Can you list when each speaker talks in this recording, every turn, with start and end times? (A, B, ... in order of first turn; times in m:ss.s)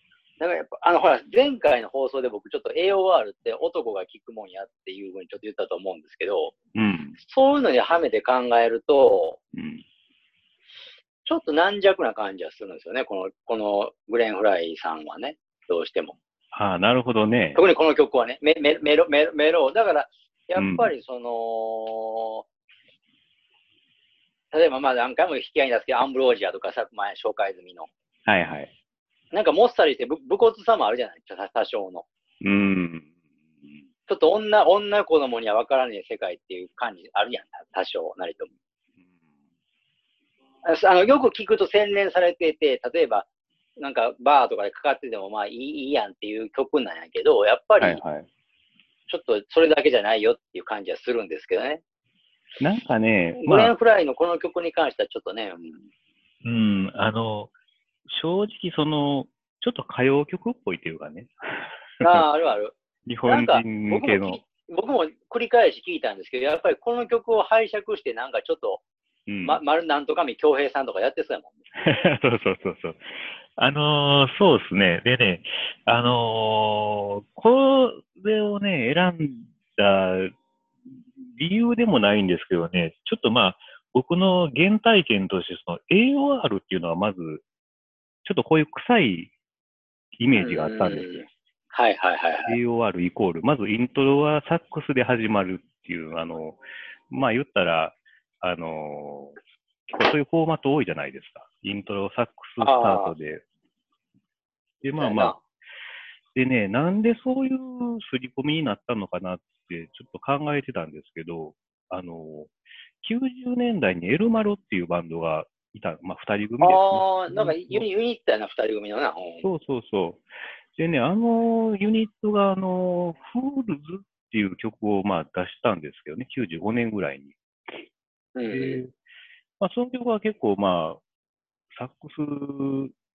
0:00.4-0:06.5 A
0:06.8-0:07.2 B
0:07.2-0:09.4 A
0:09.5-0:09.8 B
0:11.2-0:16.2 A
0:16.5-0:17.6 B
0:17.6-0:22.4 A
0:20.6-0:20.9 B
0:24.5-0:27.9 A
0:28.3-0:28.7 B
0:29.3-0:32.0 A
0:32.4-0:33.1 B
0:34.1-0:38.5 A
0:40.6-0:43.3 A
0:43.8-0:48.0 A
0:47.8-0:48.3 B
0:49.1-0:51.8 A
0:52.6-0:53.7 B
0:53.4-0:55.9 A
0:56.4-0:57.5 B
0:58.1-1:02.3 B
1:02.0-1:02.8 A
1:03.1-1:04.4 B
1:03.3-1:08.8 A
1:09.3-1:09.6 B
1:09.4-1:11.6 A
1:11.8-1:13.0 B
1:13.6-1:20.3 B
1:21.2-1:27.4 B
1:28.2-1:29.3 B
1:30.2-1:31.3 B
1:30.3-1:32.6 A
1:32.5-1:39.4 B
1:39.9-1:43.4 B
1:42.6-1:43.1 A
1:44.8-1:45.4 B
1:45.0-1:45.4 A
1:46.4-1:57.9 B
1:56.6-1:59.5 A
1:59.4-2:07.9 B
2:08.4-2:08.8 A
2:08.5-2:08.9 B
2:09.6-2:11.0 B
2:11.7-2:12.9 B